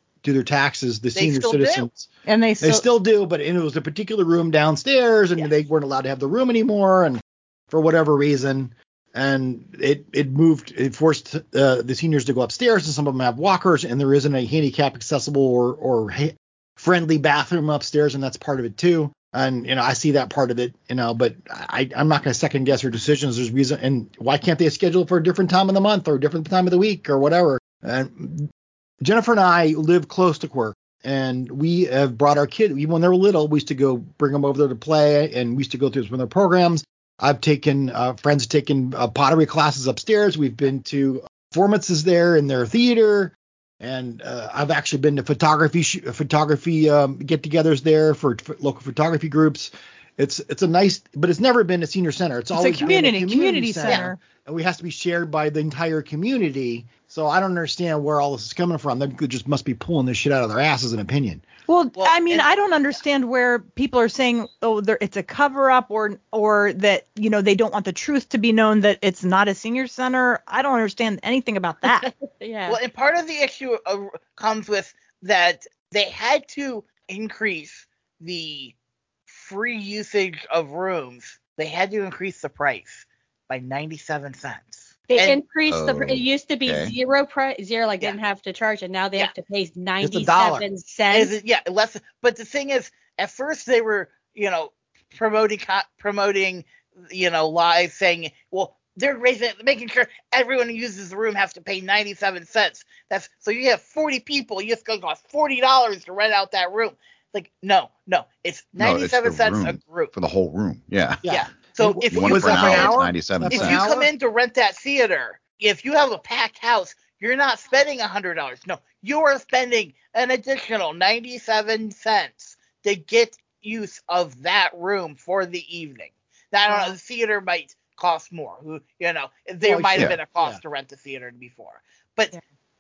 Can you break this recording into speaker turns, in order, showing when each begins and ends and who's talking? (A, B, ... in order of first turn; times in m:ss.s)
0:00.2-0:02.1 A
0:01.2-0:01.9 B
0:02.3-0:02.9 C
0:02.6-0:28.5 A
0:29.0-1:01.4 A
0:52.5-0:54.2 C
0:53.8-0:54.1 B
1:01.7-1:12.1 C
1:02.0-1:02.5 B
1:12.0-1:12.8 D
1:12.7-1:18.7 B
1:19.3-1:25.4 B
1:25.1-1:31.3 D
1:25.7-1:26.9 E
1:30.0-1:30.6 A
1:31.1-1:50.1 B
1:48.8-1:51.2 E
1:51.2-1:54.1 A
1:51.3-2:12.3 B
1:52.1-1:53.8 E
2:06.7-2:07.0 C
2:09.6-2:10.6 A